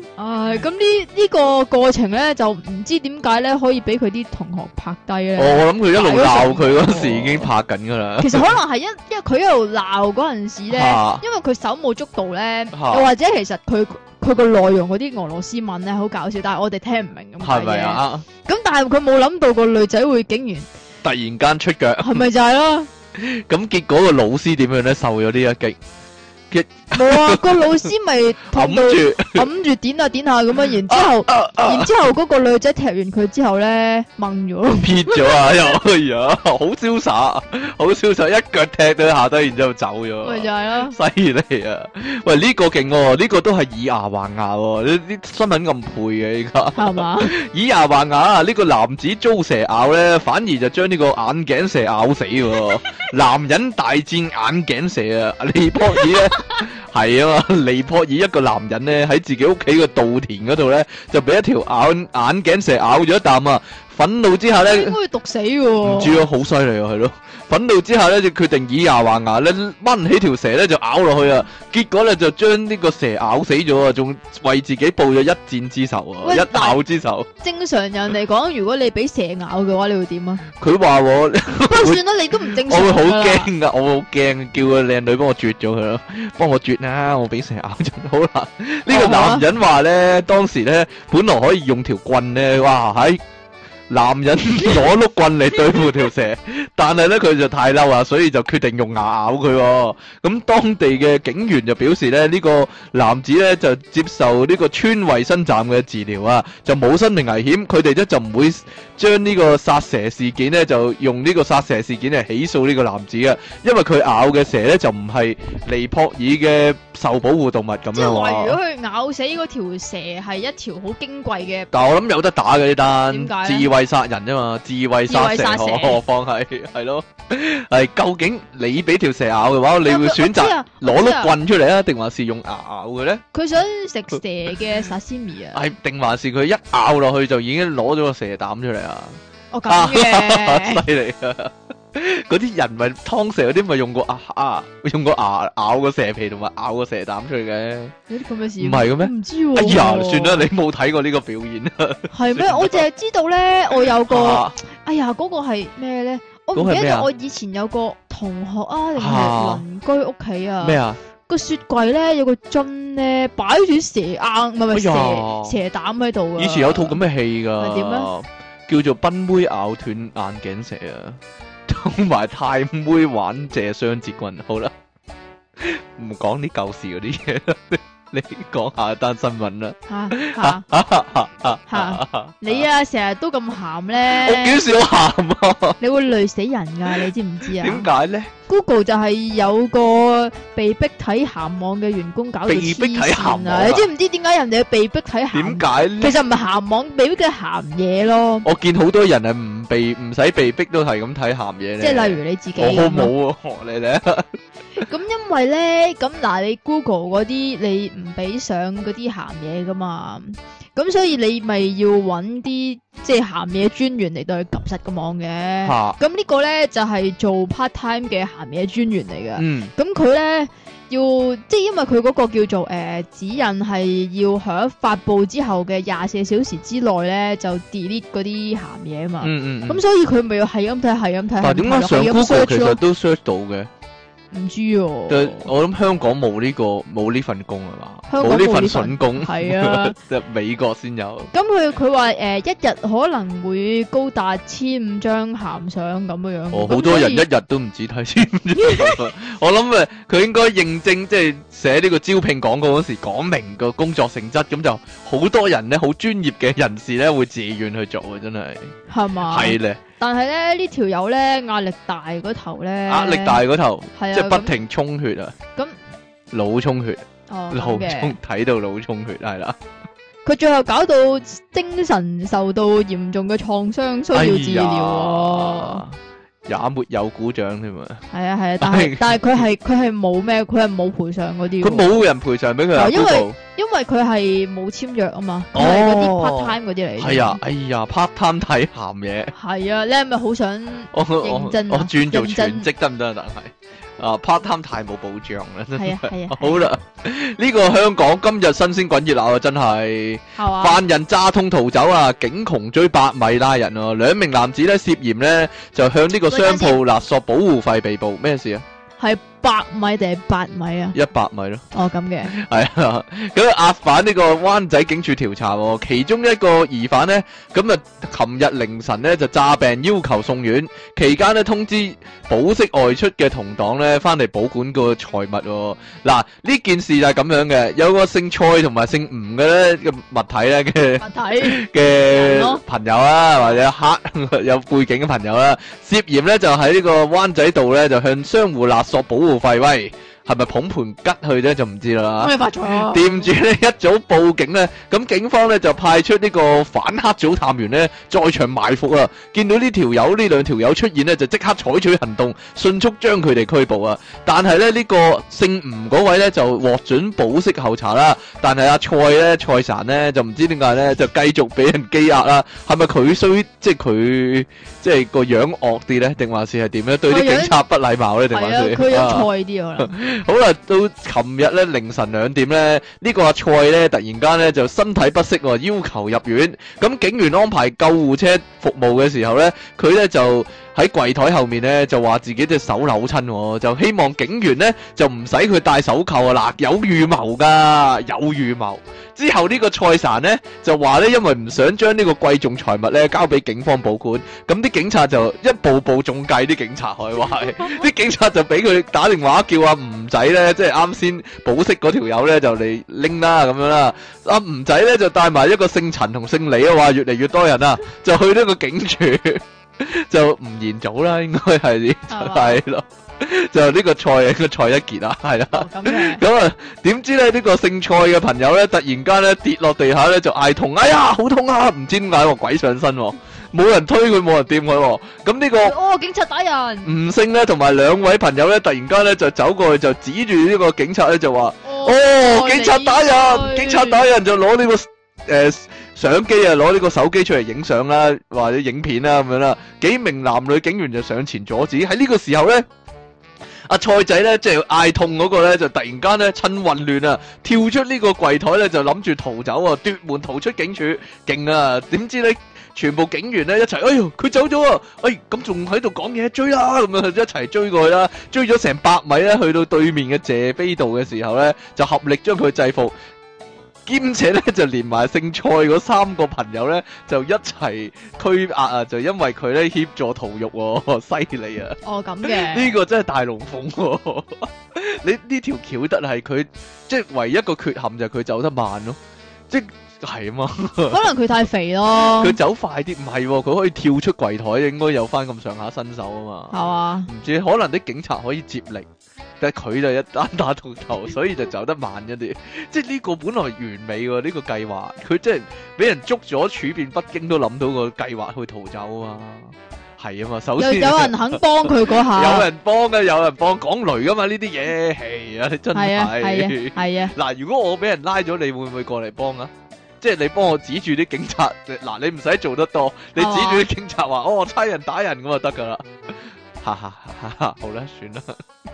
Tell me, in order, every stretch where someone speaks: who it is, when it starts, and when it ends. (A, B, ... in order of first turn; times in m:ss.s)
0:00.2-0:07.5 A
0:05.4-0:08.5 B
0:08.2-0:20.7 A
0:10.7-0:11.2 B
0:12.7-0:13.1 B
0:17.4-0:18.3 B
0:21.0-0:22.2 B
0:22.0-0:22.9 A
0:23.2-0:25.8 B
0:26.5-0:27.9 B
0:26.9-0:35.6 A
0:28.5-0:29.5 B
0:30.9-0:31.9 B
0:34.7-1:05.0 B
0:40.2-0:41.0 A
0:46.8-0:47.3 A
1:04.6-1:06.2 A
1:05.8-1:17.3 B
1:16.2-1:16.8 A
1:17.4-1:20.4 A
1:20.5-1:33.2 B
1:21.7-1:23.5 A
1:28.9-1:29.4 A
1:33.9-1:58.6 B
1:57.9-2:01.7 A
2:01.7-2:13.2 B
2:03.1-2:03.7 A
2:05.1-2:06.0 A
2:09.8-2:11.4 A
2:13.3-2:15.6 A
2:15.5-2:27.9 B
2:19.5-2:20.8 A
2:28.1-2:30.5 A
2:28.6-2:32.8 B
2:32.1-2:47.0 A
2:34.1-2:34.6 B
2:36.6-2:37.1 B
2:39.0-2:39.6 B
2:40.6-2:41.0 B
2:44.7-2:45.6 B
2:46.4-2:54.7 B
2:47.6-2:48.1 A
2:55.6-3:02.7 B
2:59.9-3:00.6 A
3:01.7-3:04.6 A
3:04.1-3:05.8 B
3:05.8-3:07.9 A
3:07.5-3:08.3 B
3:08.5-3:18.5 A
3:12.4-3:13.9 B
3:15.3-3:16.2 B
3:18.4-3:24.4 B
3:21.8-3:23.1 A
3:24.8-3:52.8 A
3:35.6-3:36.0 B
3:39.4-3:39.7 B
3:49.2-3:49.8 B
3:51.4-3:53.7 B
3:54.3-3:55.5 A
3:55.1-4:01.3 B
3:58.1-4:00.0 A
4:01.3-4:07.3 A
4:06.5-4:18.7 B
4:08.6-4:09.0 A
4:18.9-4:23.4 A
4:19.3-4:19.8 B
4:22.9-4:25.4 B
4:24.0-4:24.6 A
4:26.3-4:29.6 B
4:27.3-4:28.2 A
4:30.2-4:35.8 A
4:34.1-4:38.0 B
4:38.1-4:41.9 A
4:38.6-4:39.2 B
4:41.6-4:43.4 B
4:42.7-4:47.4 A
4:45.5-4:49.3 B
4:49.4-4:52.7 A
4:50.9-5:08.6 B
4:55.8-4:56.7 A
5:00.4-5:00.8 A
5:06.3-5:06.8 A
5:09.0-5:11.0 A
5:11.0-5:11.7 B
5:11.7-5:12.3 A
5:12.3-7:05.8 B
5:31.0-5:32.6 A
5:42.2-5:43.1 A
6:07.1-6:07.6 A
6:08.3-6:09.9 A
6:52.1-6:52.6 A
6:55.5-6:56.2 A
7:05.6-7:06.9 A
7:06.8-7:22.7 B
7:11.6-7:14.0 A
7:23.7-7:43.0 B
7:43.9-7:59.0 B
7:51.8-7:52.8 A
7:59.5-8:01.1 B
8:00.9-8:02.4 A
8:01.9-8:08.9 B
8:06.5-8:07.1 A
8:09.4-8:38.4 B
8:20.6-8:22.5 A
8:25.7-8:27.2 A
8:33.2-8:33.7 A